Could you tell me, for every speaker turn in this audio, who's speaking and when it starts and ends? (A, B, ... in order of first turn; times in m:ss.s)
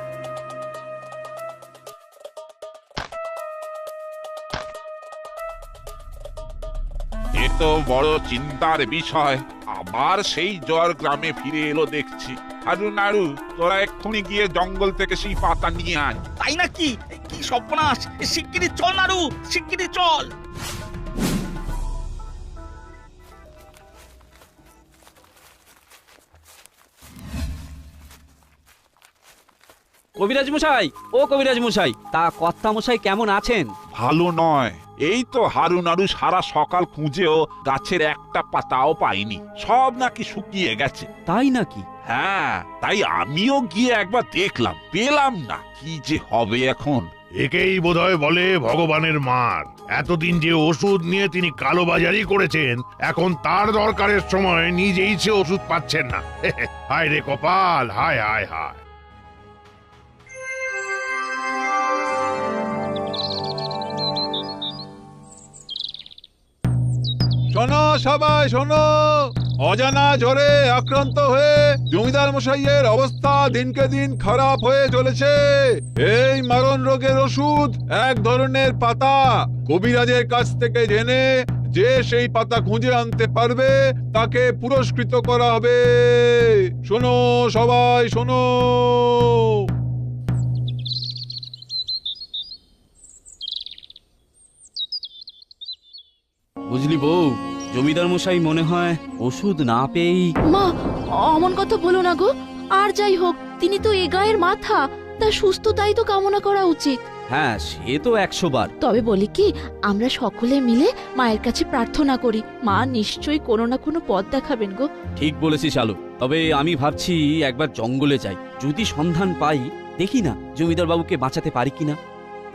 0:07.3-0:16.2 A
0:16.4-0:20.3 B
0:30.2-0:33.7 C
0:33.9-0:41.1 A
0:41.3-0:41.8 C
0:42.0-0:47.1 A
0:47.4-0:58.8 D
1:07.5-1:29.4 E
1:36.7-1:40.3 C
1:40.5-1:47.0 F
1:47.3-1:48.7 C
1:48.8-1:54.9 F
1:55.2-2:02.0 C